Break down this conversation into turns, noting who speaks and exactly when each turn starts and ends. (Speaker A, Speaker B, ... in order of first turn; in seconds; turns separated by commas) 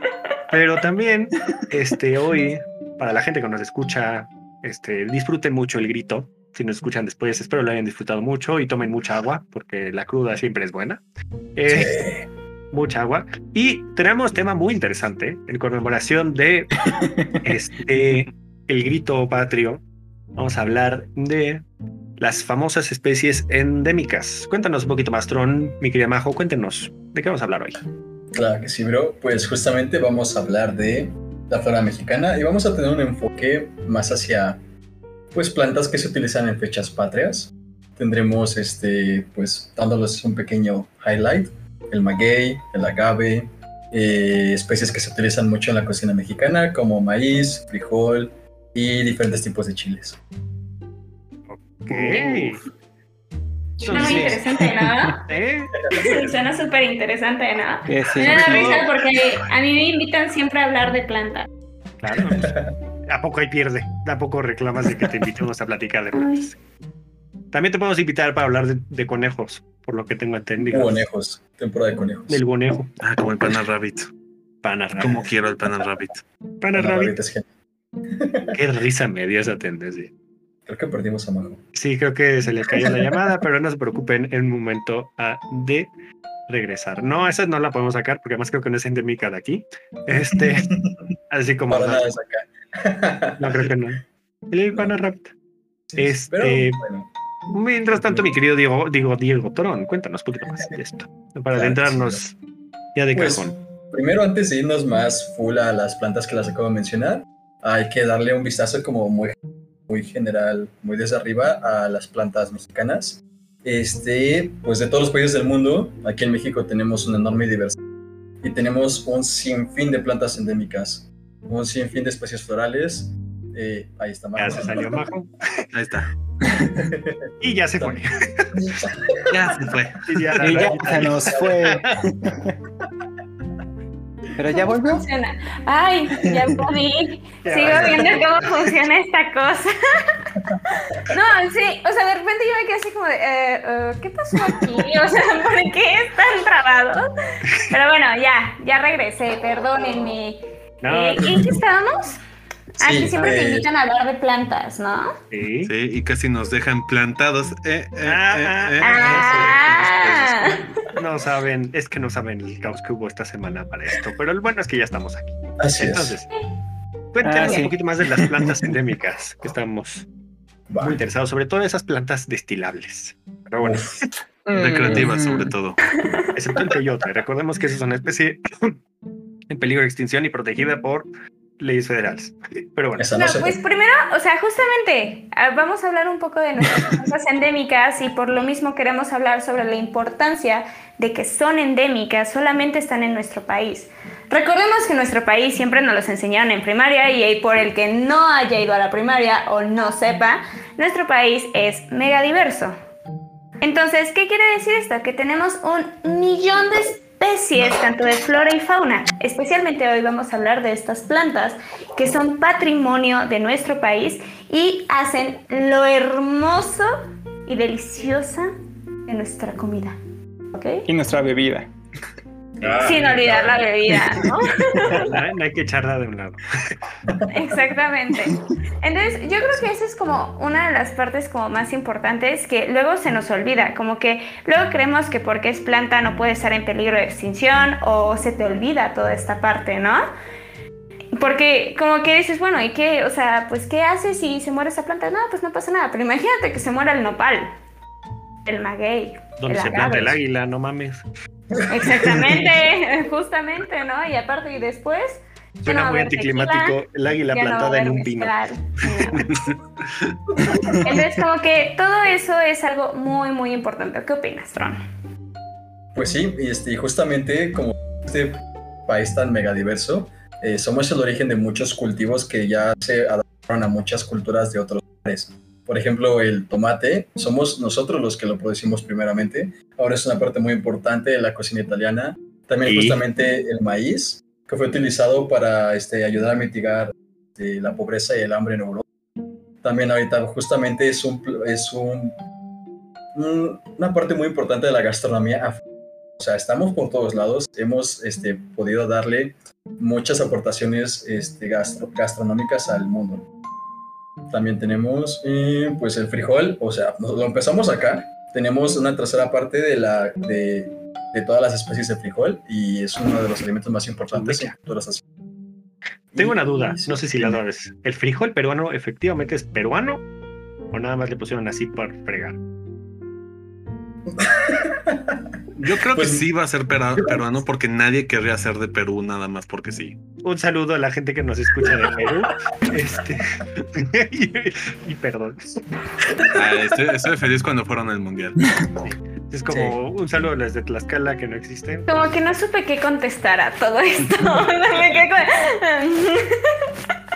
Speaker A: 0.5-11.0, Speaker A: 11.5-12.1, Speaker B: 11.7-12.2, Speaker A: 12.7-16.7, Speaker C: 17.0-17.4, Speaker A: 17.4-19.8, Speaker A: 20.4-21.6, Speaker A: 22.2-27.8, Speaker B: 28.3-34.6, Speaker B: 35.3-50.2, Speaker A: 51.5-52.6, Speaker B: 51.9-52.5, Speaker A: 53.8-54.4, Speaker C: 53.8-55.1, Speaker D: 53.9-55.2, Speaker A: 55.3-56.2, Speaker D: 55.9-61.5, Speaker C: 57.9-58.8, Speaker A: 58.1-58.9, Speaker A: 62.0-66.5, Speaker B: 62.2-62.7, Speaker D: 66.1-66.5, Speaker A: 67.5-71.0, Speaker B: 70.7-72.4, Speaker A: 72.3-72.9, Speaker E: 73.0-74.1, Speaker A: 74.6-75.3, Speaker E: 75.0-76.2, Speaker A: 76.6-77.1, Speaker B: 76.8-77.4, Speaker B: 78.1-78.5, Speaker A: 78.5-80.1, Speaker B: 80.7-81.6, Speaker A: 81.7-85.9, Speaker B: 82.7-83.3, Speaker A: 86.5-90.7, Speaker B: 90.2-91.1, Speaker A: 91.3-92.1, Speaker B: 91.7-93.7, Speaker A: 93.4-95.3, Speaker B: 95.9-97.1, Speaker A: 96.0-96.8, Speaker A: 97.5-102.3, Speaker B: 97.9-98.2, Speaker B: 101.5-102.2, Speaker A: 102.9-103.5, Speaker B: 103.1-109.3, Speaker B: 109.9-117.8, Speaker B: 118.4-124.9, Speaker A: 124.3-125.7, Speaker E: 125.7-126.1, Speaker C: 126.5-126.8, Speaker B: 126.8-128.0, Speaker A: 127.4-128.8, Speaker B: 128.6-129.2, Speaker E: 129.3-130.9, Speaker A: 130.1-131.9, Speaker C: 130.4-132.5, Speaker C: 134.3-135.1, Speaker D: 134.5-140.3, Speaker C: 136.2-136.5, Speaker A: 137.4-138.5, Speaker B: 137.7-138.0, Speaker B: 140.5-141.1, Speaker D: 140.9-147.1, Speaker D: 147.7-152.2, Speaker A: 150.8-151.4, Speaker B: 151.2-151.6, Speaker D: 152.8-155.2, Speaker B: 152.8-153.7, Speaker A: 155.3-155.7, Speaker E: 155.6-160.6, Speaker A: 158.0-159.6, Speaker D: 158.8-160.7, Speaker A: 160.9-166.3, Speaker B: 165.6-166.2, Speaker A: 167.1-170.1, Speaker C: 167.2-168.5, Speaker B: 170.7-171.0, Speaker A: 170.8-173.9, Speaker B: 173.6-174.0, Speaker C: 174.4-175.5, Speaker E: 174.5-175.8, Speaker D: 175.9-176.6, Speaker A: 176.3-178.8, Speaker A: 179.5-181.1, Speaker A: 181.6-183.1, Speaker B: 183.0-183.6, Speaker D: 183.1-202.7, Speaker D: 203.6-216.9, Speaker D: 217.4-218.5, Speaker D: 219.1-220.0, Speaker D: 220.5-220.9, Speaker C: 220.9-221.7, Speaker A: 222.6-223.6, Speaker B: 222.6-223.6, Speaker D: 222.8-225.1, Speaker A: 224.9-226.8, Speaker B: 227.1-227.4, Speaker D: 227.3-240.1, Speaker D: 241.1-247.5, Speaker D: 248.4-250.2, Speaker A: 249.4-251.0, Speaker B: 251.5-252.5, Speaker D: 251.7-256.8, Speaker A: 255.6-258.3, Speaker D: 257.3-259.3, Speaker E: 259.2-260.2, Speaker C: 260.6-260.8, Speaker D: 260.8-264.8, Speaker B: 265.9-288.8, Speaker A: 282.6-283.0, Speaker B: 289.6-292.2, Speaker B: 293.1-295.6, Speaker B: 296.2-303.3, Speaker B: 304.3-315.0, Speaker A: 314.1-314.5, Speaker B: 316.1-317.4, Speaker A: 316.1-320.0, Speaker A: 320.7-322.4, Speaker B: 324.1-326.2, Speaker E: 325.6-330.0, Speaker B: 326.9-327.2, Speaker A: 330.2-335.6, Speaker B: 336.2-336.4, Speaker E: 336.3-338.4, Speaker A: 338.8-342.1, Speaker B: 339.5-339.8, Speaker D: 341.9-346.7